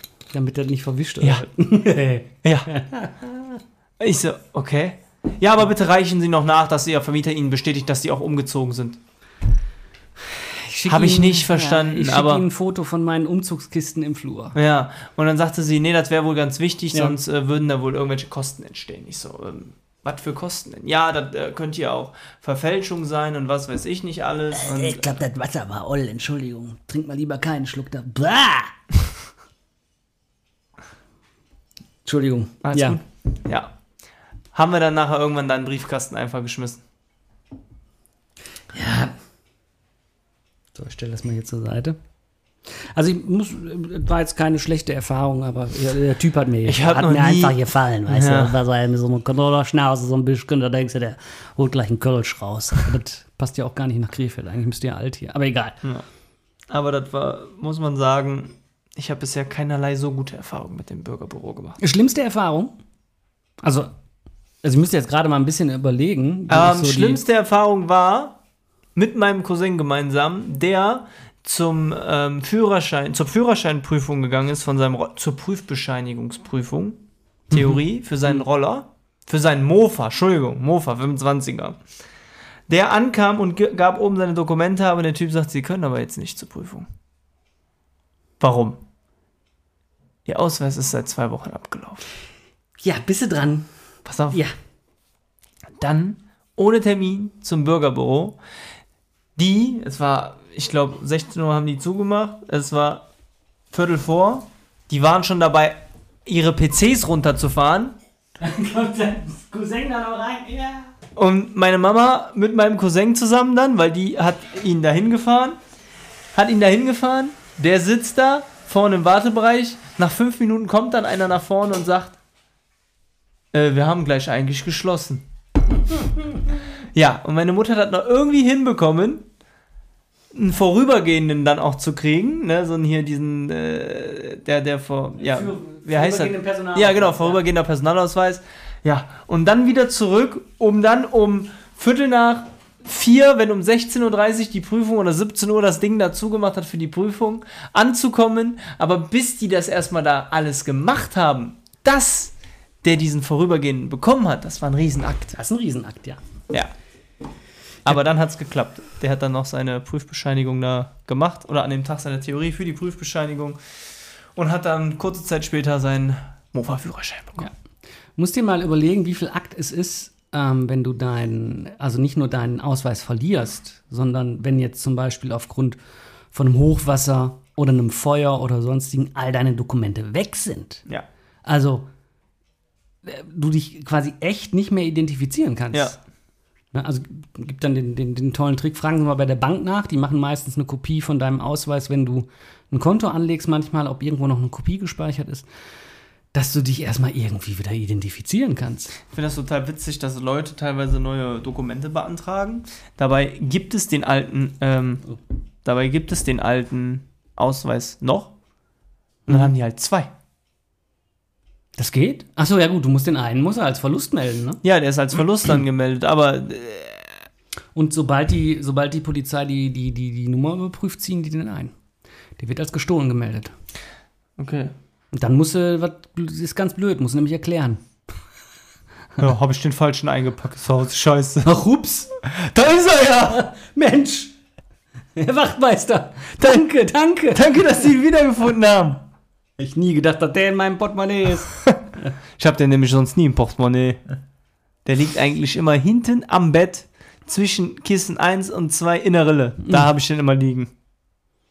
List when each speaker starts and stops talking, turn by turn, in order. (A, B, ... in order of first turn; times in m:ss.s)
0:00.3-0:03.6 A
0:02.4-0:02.7 B
0:04.0-0:09.0 B
0:10.4-0:14.6 A
0:10.9-0:12.5 B
0:14.5-0:25.2 B
0:24.5-0:28.8 A
0:32.0-0:33.0 A
0:32.6-0:33.7 B
0:34.5-0:36.8 B
0:38.7-0:39.2 A
0:40.7-0:42.0 A
0:42.8-0:55.8 A
0:46.7-0:48.6 B
0:56.7-1:01.8 B
1:01.8-1:02.8 A
1:03.6-1:03.9 A
1:04.6-1:07.2 A
1:06.5-1:08.4 B
1:09.0-1:21.8 B
1:22.7-1:26.9 B
1:28.4-1:28.8 B
1:30.2-1:32.0 B
1:32.8-1:33.7 A
1:34.0-1:34.4 B
1:35.8-1:38.4 B
1:39.4-1:43.1 B
1:43.7-1:48.0 B
1:48.4-1:50.9 A
1:51.2-1:55.6 B
1:56.3-2:02.2 B
2:03.5-2:05.3 B
2:06.9-2:09.3 B
2:10.3-2:35.4 B
2:15.2-2:17.4 A
2:35.4-2:36.2 A
2:37.8-2:43.6 B
2:44.4-2:47.5 B
2:48.2-2:55.8 A
2:56.3-3:00.8 A
3:01.4-3:01.9 A
3:03.0-3:06.0 A
3:05.7-3:06.0 B
3:06.7-3:15.5 A
3:16.3-3:19.0 A
3:19.1-3:25.0 B
3:25.6-3:28.3 B
3:29.3-3:30.1 B
3:31.8-3:34.6 A
3:34.6-3:37.2 B
3:37.8-3:41.7 A
3:42.4-3:43.5 A
3:44.4-3:44.8 B
3:45.1-3:47.8 A
3:49.2-3:51.5 B
3:51.4-3:52.1 A
3:52.3-3:53.4 B
3:53.2-3:54.3 A
3:55.2-3:57.7 A
3:57.3-3:59.1 B
3:59.6-4:01.5 A
4:02.4-4:04.0 B
4:04.8-4:10.7 B